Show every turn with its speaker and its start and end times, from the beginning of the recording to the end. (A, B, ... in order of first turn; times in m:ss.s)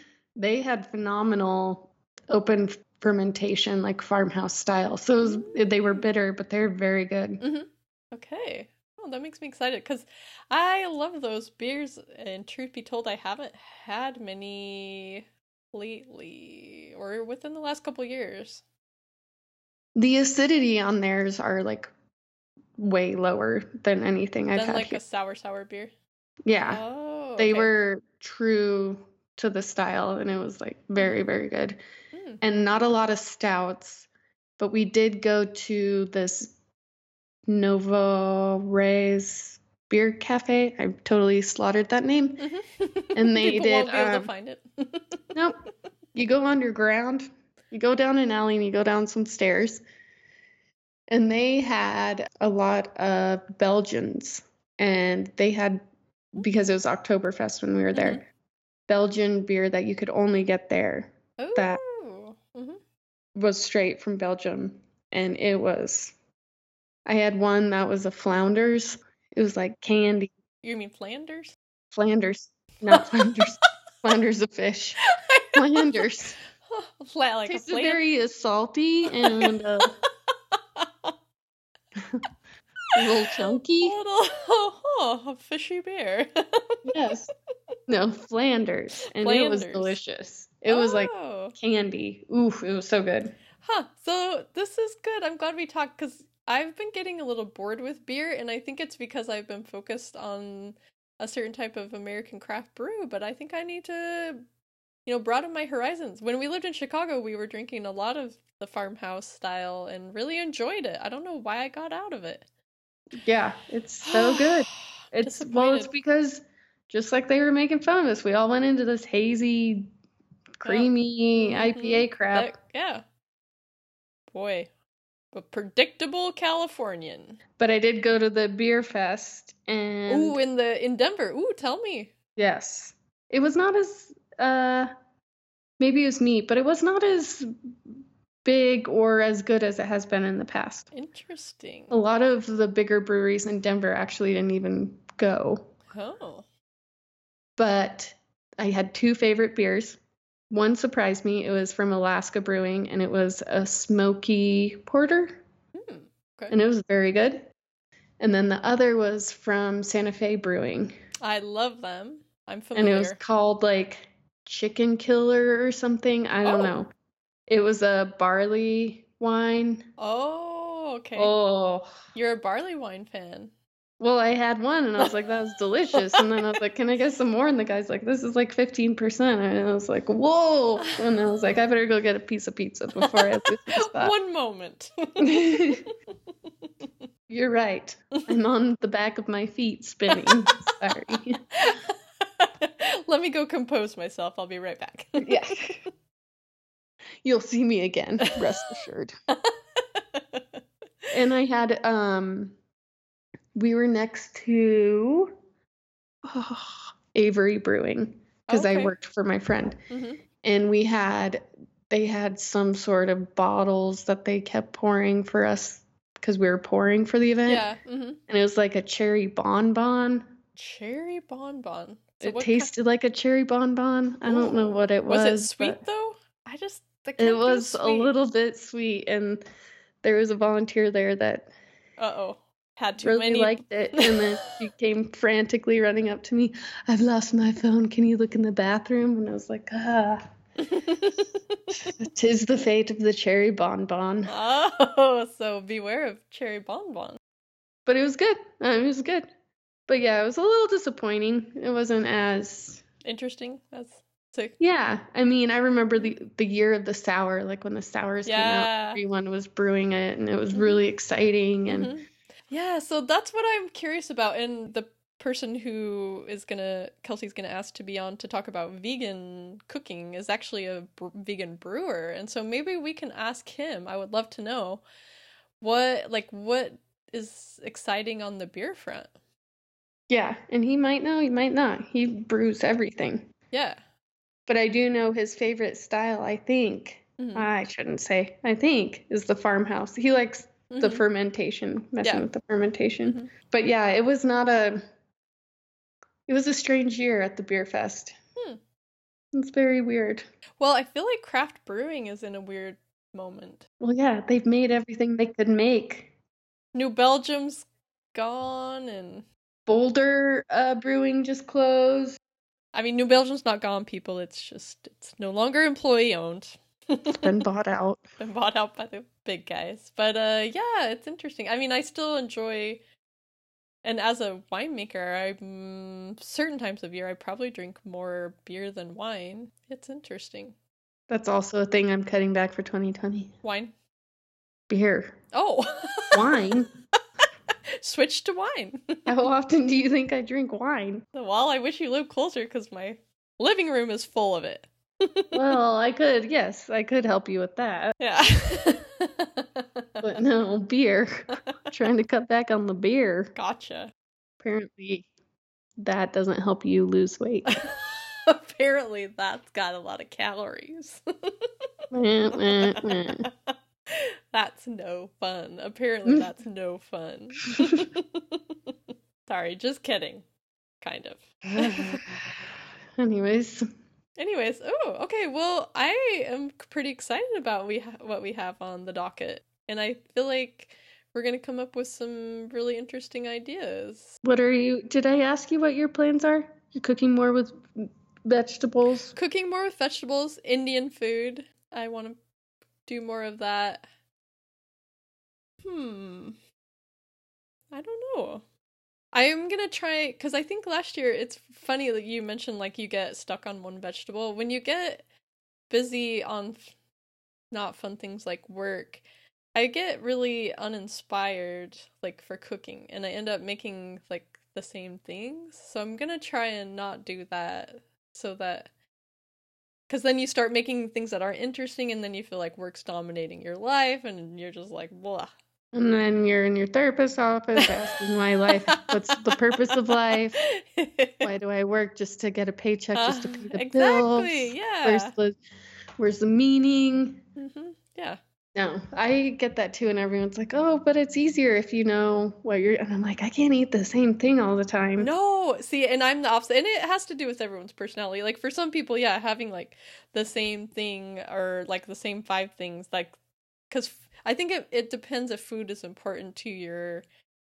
0:00.4-0:07.4 A
0:05.2-0:06.1 B
0:07.4-0:18.6 B
0:20.0-0:21.9 A
0:22.8-0:25.0 A
0:24.5-0:25.9 B
0:26.4-0:26.8 A
0:26.6-0:27.7 B
0:27.4-0:31.8 A
0:32.1-0:32.4 B
0:32.4-0:34.1 A
0:34.6-0:36.5 A
0:37.5-0:42.5 A
0:42.4-0:45.2 B
0:43.2-0:44.3 A
0:46.1-0:49.8 A
0:51.1-0:55.8 A
0:56.3-0:58.2 A
0:57.9-0:58.2 B
0:58.9-1:01.8 A
1:01.4-1:02.8 B
1:03.4-1:06.1 A
1:07.1-1:10.3 A
1:10.6-1:11.6 B
1:11.9-1:15.0 A
1:15.0-1:18.0 B
1:15.5-1:16.4 A
1:17.5-1:20.0 A
1:19.1-1:21.1 B
1:22.9-1:26.9 B
1:23.0-1:24.0 A
1:26.9-1:27.3 A
1:27.9-1:33.4 A
1:29.2-1:30.0 B
1:30.7-1:31.6 B
1:33.6-1:44.4 B
1:45.1-1:52.5 B
1:53.2-1:59.9 A
1:54.0-1:55.9 B
2:00.6-2:02.6 A
2:00.6-2:03.0 B
2:04.3-2:04.7 B
2:05.3-2:07.4 B
2:07.6-2:10.4 A
2:10.1-2:12.1 B
2:12.4-2:14.9 A
2:15.8-2:17.5 A
2:18.4-2:20.9 A
2:20.9-2:22.0 B
2:21.9-2:25.7 A
2:25.9-2:26.5 B
2:27.6-2:30.0 A
2:30.5-2:35.4 A
2:35.8-2:36.6 B
2:36.5-2:37.5 A
2:38.2-2:40.9 A
2:41.2-2:43.2 B
2:42.8-2:46.9 A
2:46.4-2:46.7 B
2:47.5-2:49.8 A
2:50.0-2:51.3 B
2:51.2-2:51.9 A
2:52.2-2:53.5 B
2:54.0-3:04.1 A
2:55.0-2:55.2 B
2:55.9-2:56.6 B
3:00.8-3:01.1 B
3:03.0-3:05.9 B
3:05.2-3:05.9 A
3:07.3-3:11.4 A
3:10.1-3:15.4 B
3:15.2-3:15.8 A
3:17.2-3:19.1 A
3:18.2-3:20.6 B
3:21.1-3:22.6 A
3:23.6-3:25.3 A
3:26.2-3:29.8 A
3:28.5-3:28.9 B
3:29.9-3:30.2 B
3:30.4-3:37.6 A
3:37.5-3:38.2 B
3:38.3-3:40.3 A
3:40.6-3:42.7 B
3:42.2-3:45.8 A
3:44.2-3:48.1 B
3:47.2-3:49.4 A
3:50.0-3:51.5 A
3:52.0-3:54.6 B
3:53.0-4:00.2 A
4:00.6-4:01.6 B
4:01.7-4:04.4 A
4:04.3-4:07.2 B
4:07.9-4:09.3 A
4:09.9-4:12.8 A
4:13.0-4:14.6 B
4:14.6-4:21.9 A
4:18.3-4:19.0 B
4:20.5-4:20.8 B
4:21.7-4:34.8 B
4:35.6-4:39.1 B
4:40.1-4:43.3 A
4:43.5-4:43.8 B
4:44.5-4:54.8 A
4:47.2-4:47.5 B
4:50.7-4:51.0 B
4:56.3-4:58.2 A
4:59.3-5:00.2 A
5:00.6-5:03.7 B
5:03.8-5:06.1 A
5:06.7-5:09.3 B
5:09.7-5:12.2 A
5:12.7-5:17.4 B
5:17.2-5:18.0 A
5:18.2-5:22.8 B
5:23.8-5:30.6 B
5:31.1-5:33.3 A
5:33.4-5:33.7 B
5:34.7-5:35.2 A
5:35.3-5:36.7 B
5:36.1-5:36.7 A
5:37.8-5:39.2 B
5:39.1-5:41.0 A
5:41.1-5:45.4 B
5:45.3-5:48.0 A
5:48.0-5:50.2 B
5:50.0-5:53.3 A
5:53.4-5:53.9 B
5:54.4-5:55.1 A
5:55.8-5:57.6 A
5:57.5-6:01.7 B
6:01.9-6:03.2 A
6:02.4-6:08.7 B
6:09.3-6:10.2 B
6:10.8-6:12.0 B
6:11.5-6:13.7 A
6:14.2-6:24.2 B
6:24.2-6:29.1 A
6:29.1-6:32.2 B
6:32.8-6:33.9 B
6:35.6-6:36.4 B
6:37.7-6:38.4 B
6:39.1-6:45.0 B
6:45.7-6:46.7 B
6:47.5-6:49.0 B
6:49.6-6:58.7 B
6:59.9-7:05.3 B
7:05.7-7:10.4 A
7:07.6-7:11.3 B
7:11.2-7:15.4 A
7:13.0-7:15.1 B
7:16.0-7:17.2 A
7:17.4-7:18.2 B
7:18.6-7:25.1 A
7:25.0-7:33.2 B
7:33.7-7:37.0 B